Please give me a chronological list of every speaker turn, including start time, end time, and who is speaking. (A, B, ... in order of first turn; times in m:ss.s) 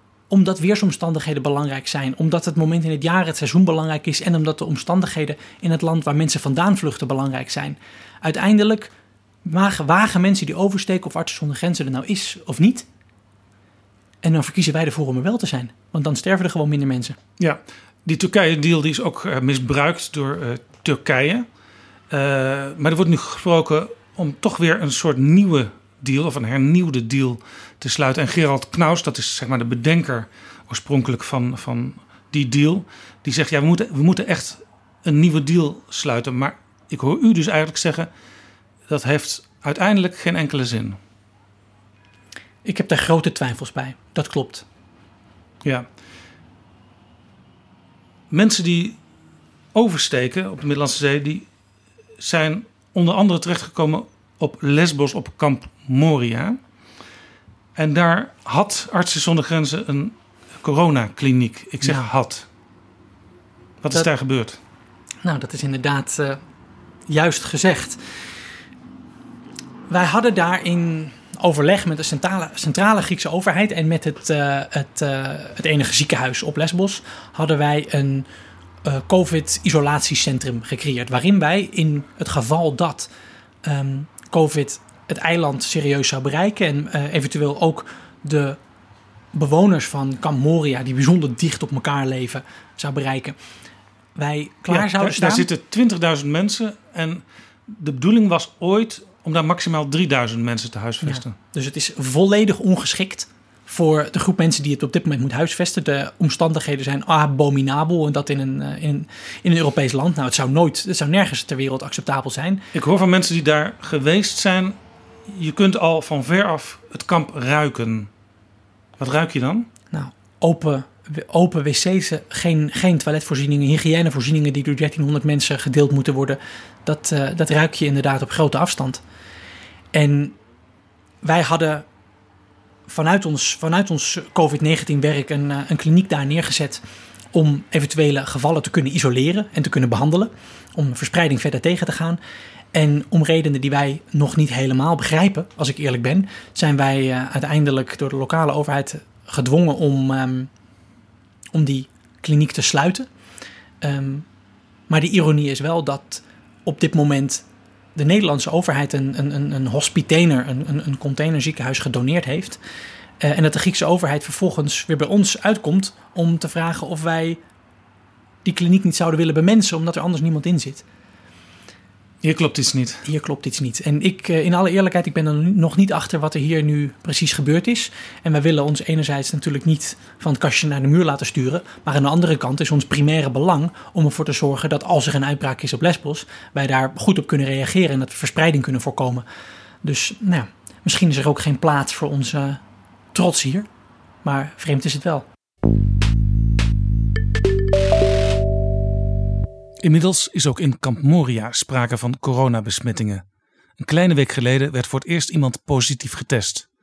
0:00.3-0:08.9 A
0:09.4-0:12.8 A
0:14.2-0:17.2 A
0:17.4-0:21.4 B
0:22.1-0:38.1 B
0:38.9-0:41.0 B
0:42.6-0:44.6 A
0:48.3-0:49.0 B
0:49.7-0:51.5 B
0:52.2-0:56.6 B
0:57.8-1:02.4 B
1:01.8-1:02.1 A
1:03.8-1:04.6 B
1:05.2-1:06.4 A
1:07.1-1:08.0 A
1:09.9-1:18.3 A
1:18.8-1:23.1 A
1:23.6-1:28.6 A
1:29.3-1:33.4 A
1:34.2-1:35.5 A
1:34.7-1:41.3 B
1:41.0-1:52.6 A
1:52.7-1:54.8 B
1:55.3-1:58.1 B
1:59.0-1:59.7 B
1:59.9-2:09.0 A
2:09.9-2:10.4 A
2:11.2-2:11.8 A
2:12.9-2:16.8 A
2:17.3-2:22.2 A
2:22.7-2:30.5 A
2:31.5-2:33.1 A
2:33.8-2:34.2 A
2:34.9-2:37.4 A
2:38.0-2:42.6 A
2:43.2-2:47.4 A
2:48.4-2:50.8 A
2:52.2-2:53.0 B
2:53.0-3:09.2 A
3:09.8-3:12.6 A
3:13.1-3:13.7 A
3:14.2-3:15.2 A
3:19.8-3:23.2 B
3:23.8-3:26.6 B